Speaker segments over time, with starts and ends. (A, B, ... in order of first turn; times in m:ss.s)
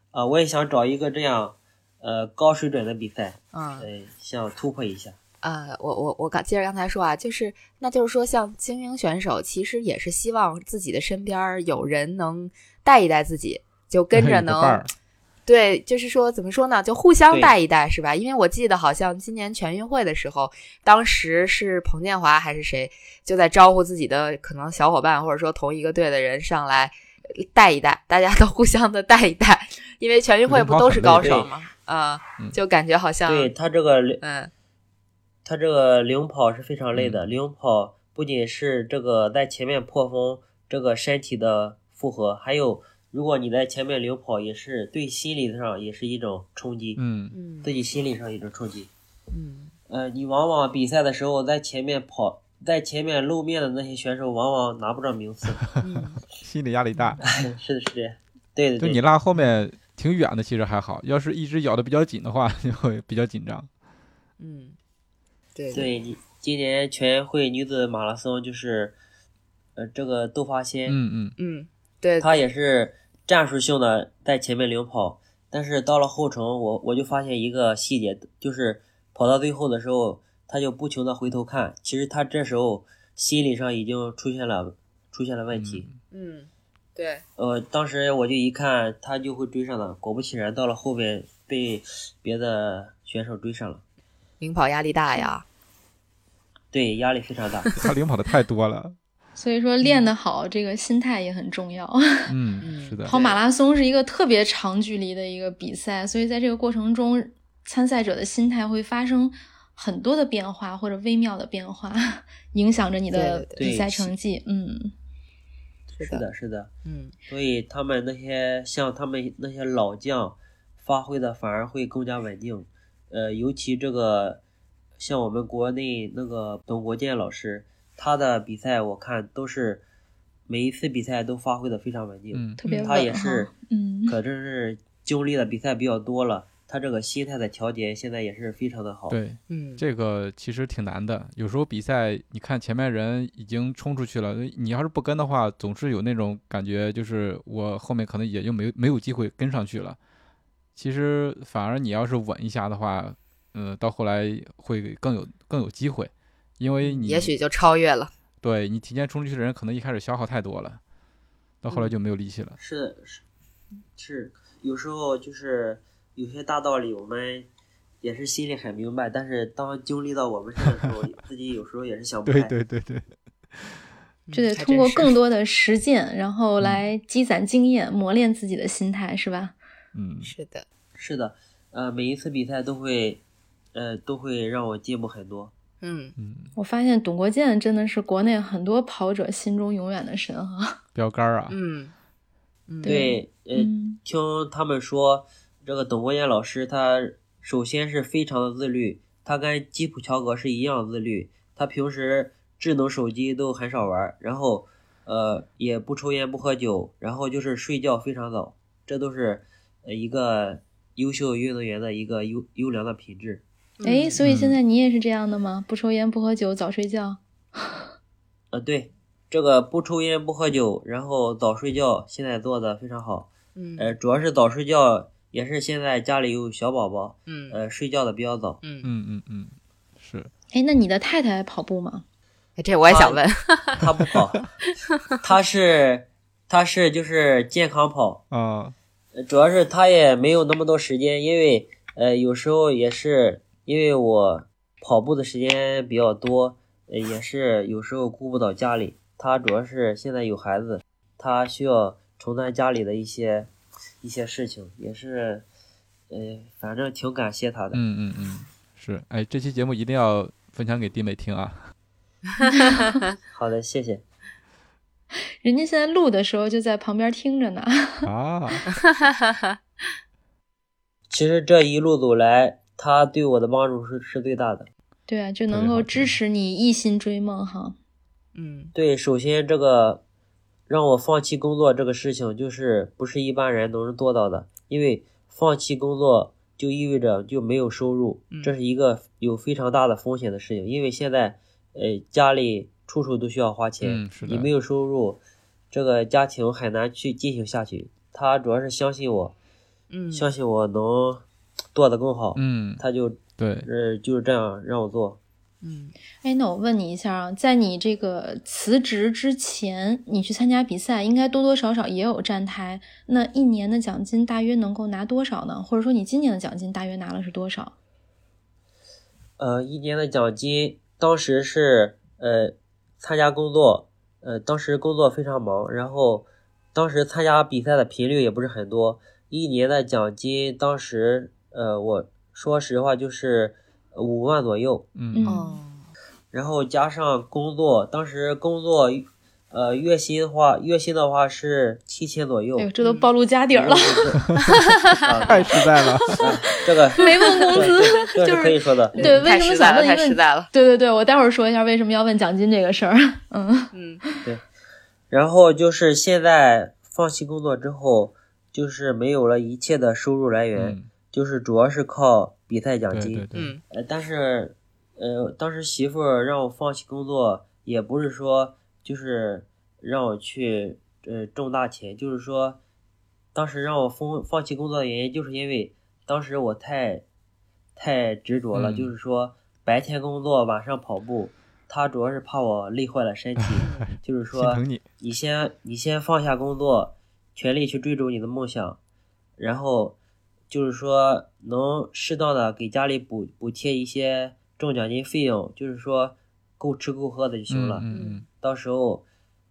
0:00.1-0:05.2 A
0:03.5-0:03.9 B
0:05.4-0:14.8 B
0:14.1-0:14.9 C
0:15.4-0:33.5 B
0:30.5-0:31.5 C
0:31.1-0:31.5 A
0:33.3-0:34.2 A
0:34.2-0:34.5 B
0:35.4-0:47.0 A
0:47.0-0:47.4 C
0:47.3-0:47.7 B
0:47.6-0:48.9 A
0:49.3-0:49.7 B
0:49.9-0:55.6 A
0:55.8-0:56.2 B
0:56.0-0:57.3 C
0:57.2-0:59.0 A
0:58.8-1:03.7 C
1:04.4-1:04.8 B
1:05.5-1:05.9 B
1:05.7-1:09.0 A
1:09.8-1:11.0 A
1:10.8-1:11.4 C
1:11.4-1:12.4 B
1:12.2-1:25.9 A
1:25.5-1:25.9 C
1:26.1-1:27.2 B
1:27.4-1:33.8 A
1:34.4-1:35.4 B
1:36.7-1:37.8 A
1:37.8-1:39.0 C
1:39.4-1:42.3 D
1:39.8-1:40.1 B
1:42.3-1:43.1 C
1:42.6-1:43.4 B
1:43.0-1:54.9 D
1:53.1-1:53.7 B
1:53.6-1:54.1 A
1:55.9-1:56.2 B
1:56.0-1:56.7 A
1:56.8-1:57.1 B
1:57.3-2:04.4 A
2:05.0-2:09.8 A
2:10.5-2:13.5 A
2:12.3-2:12.6 C
2:12.6-2:14.2 D
2:12.6-2:12.9 B
2:14.1-2:19.2 A
2:19.1-2:30.0 C
2:19.5-2:19.8 B
2:30.8-2:37.3 C
2:36.8-2:38.1 B
2:38.4-2:40.8 C
2:41.6-2:42.6 C
2:41.7-2:41.9 B
2:42.6-2:43.2 A
2:44.0-2:47.5 A
2:48.0-2:52.5 A
2:52.2-2:53.8 C
2:54.3-2:55.1 B
2:54.3-2:59.5 D
2:56.6-2:56.8 C
2:59.9-3:00.3 C
3:00.2-3:00.6 B
3:01.0-3:03.2 A
3:03.7-3:05.5 A
3:05.8-3:06.1 B
3:06.2-3:06.5 C
3:06.6-3:10.8 D
3:10.9-3:11.6 C
3:11.5-3:11.9 B
3:12.7-3:13.1 B
3:12.8-3:14.0 D
3:12.8-3:33.4 A
3:33.8-3:34.2 B
3:33.8-3:37.8 D
3:34.2-3:34.6 C
3:38.5-3:48.6 A
3:43.6-3:44.0 B
3:47.3-3:47.6 B
3:48.6-3:48.9 B
3:48.8-3:50.3 C
3:50.5-3:52.0 D
3:52.6-3:53.8 B
3:52.8-3:53.2 A
3:53.7-3:54.5 A
3:55.2-3:58.2 A
3:58.3-3:58.7 C
3:59.1-4:13.5 A
4:14.0-4:15.4 A
4:16.1-4:17.8 A
4:17.7-4:21.7 C
4:22.4-4:22.8 B
4:22.4-4:22.9 D
4:23.3-4:24.0 A
4:25.4-4:28.1 D
4:28.0-4:28.7 C
4:28.7-4:29.3 B
4:31.1-4:34.7 A
4:35.1-4:37.8 D
4:35.5-4:36.1 C
4:38.3-4:38.7 B
4:38.7-4:40.0 A
4:40.7-4:59.3 A
4:53.8-4:54.5 C
4:59.9-5:00.3 B
5:00.1-5:05.2 A
5:02.3-5:02.8 C
5:03.4-5:03.7 C
5:05.6-5:05.9 B
5:06.2-5:17.7 D
5:19.4-5:34.9 A
5:34.9-5:35.4 C
5:35.1-5:35.6 D
5:35.2-5:35.9 B
5:36.3-5:42.7 A
5:42.6-5:44.2 D
5:42.8-5:43.1 B
5:43.5-5:44.3 A
5:44.9-5:45.5 A
5:45.2-5:46.2 C
5:46.2-5:49.2 A
5:47.0-5:54.2 D
5:48.9-5:50.5 B
5:53.7-5:54.0 B
5:55.1-6:12.6 A
6:00.5-6:00.9 C
6:02.9-6:03.5 C
6:03.3-6:03.6 B
6:13.3-6:17.0 A
6:17.8-6:28.8 A
6:18.5-6:18.9 C
6:23.4-6:24.8 C
6:29.4-6:30.0 A
6:30.5-6:37.8 A
6:37.5-6:38.2 C
6:37.9-6:38.2 B
6:38.4-6:39.0 A